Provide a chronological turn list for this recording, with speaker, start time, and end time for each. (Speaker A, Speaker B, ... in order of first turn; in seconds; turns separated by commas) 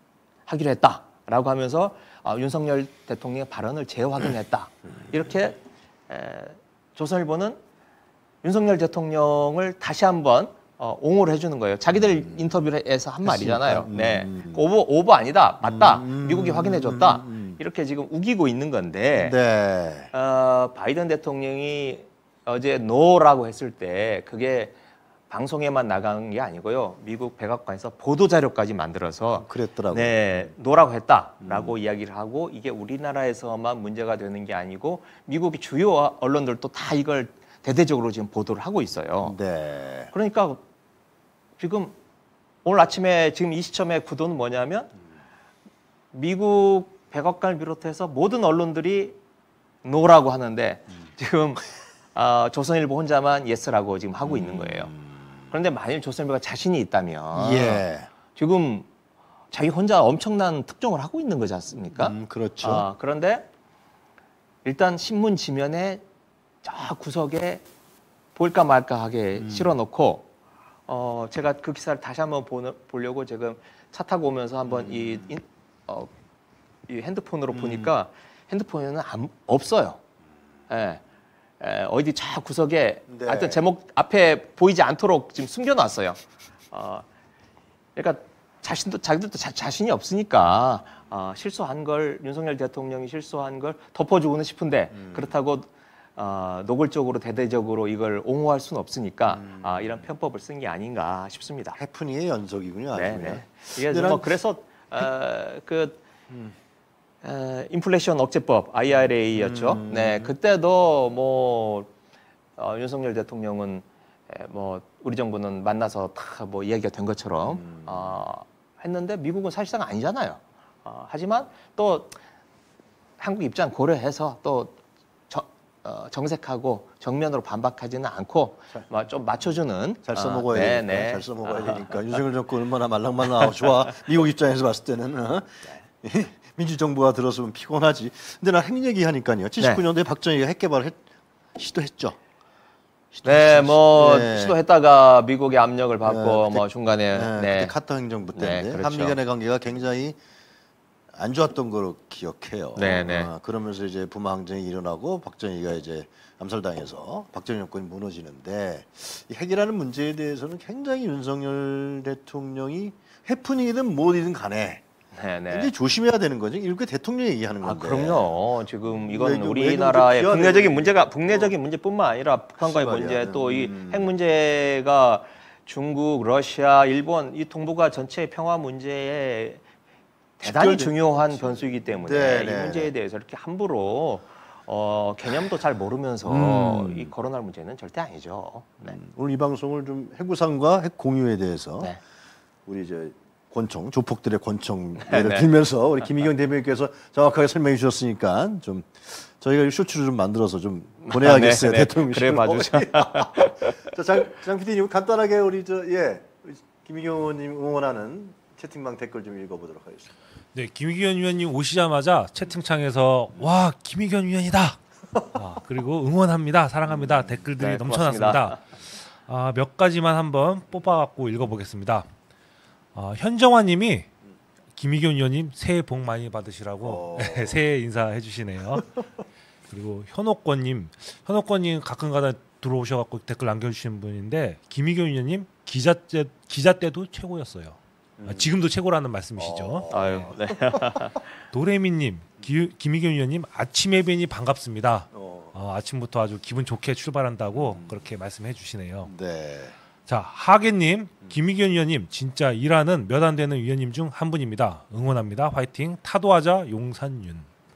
Speaker A: 0.5-5.6, Speaker A: 6.1-7.6, Speaker A: 8.4-19.4, Speaker B: 11.9-12.5, Speaker B: 13.2-14.6, Speaker B: 15.6-17.6, Speaker B: 19.2-20.1, Speaker A: 20.1-24.8, Speaker A: 25.3-39.4, Speaker B: 29.4-30.5, Speaker B: 31.4-31.8, Speaker B: 39.2-40.1, Speaker A: 40.1-40.6, Speaker A: 41.6-42.0, Speaker A: 42.6-44.9, Speaker A: 46.1-49.2, Speaker A: 49.8-51.6, Speaker A: 52.1-54.9, Speaker B: 54.2-55.4, Speaker A: 55.5-57.8, Speaker B: 57.3-58.1, Speaker A: 58.4-58.9, Speaker A: 59.5-63.5, Speaker B: 61.9-62.9, Speaker A: 64.7-66.0, Speaker A: 66.6-67.6, Speaker A: 68.3-70.3, Speaker B: 69.4-69.8, Speaker A: 70.9-76.1, Speaker B: 74.7-75.3, Speaker A: 76.9-80.0, Speaker B: 77.5-77.9, Speaker A: 80.7-81.0, Speaker A: 81.6-87.1, Speaker B: 83.1-83.6, Speaker A: 88.0-101.8, Speaker B: 94.9-95.3, Speaker B: 99.3-100.1, Speaker B: 101.8-104.3, Speaker A: 102.9-106.0, Speaker B: 106.3-106.5, Speaker A: 107.2-111.9, Speaker B: 109.3-110.3, Speaker A: 112.6-122.2, Speaker B: 117.5-118.2, Speaker A: 123.2-124.8, Speaker A: 125.3-132.0, Speaker B: 130.1-141.0, Speaker B: 141.6-142.2, Speaker B: 143.1-144.6, Speaker A: 143.2-147.7, Speaker B: 146.0-150.2, Speaker A: 148.3-149.2, Speaker B: 151.1-164.8, Speaker A: 152.8-153.3, Speaker A: 165.1-165.7, Speaker B: 165.5-171.5, Speaker A: 167.6-179.6, Speaker B: 172.6-174.1, Speaker A: 180.4-189.0, Speaker B: 180.4-182.9, Speaker B: 186.3-187.1, Speaker B: 188.8-191.9, Speaker B: 192.7-210.2, Speaker A: 195.0-195.5, Speaker A: 201.1-204.3, Speaker C: 210.5-218.7, Speaker B: 216.9-217.4, Speaker A: 217.6-218.6, Speaker C: 219.3-222.1, Speaker C: 222.9-224.1, Speaker C: 224.8-228.9, Speaker B: 226.8-227.6, Speaker C: 229.7-239.9, Speaker B: 238.2-238.5, Speaker B: 239.4-240.8, Speaker A: 239.9-241.2, Speaker C: 241.5-249.1, Speaker B: 245.1-245.6, Speaker B: 247.6-248.1, Speaker B: 249.1-249.8, Speaker C: 250.1-257.5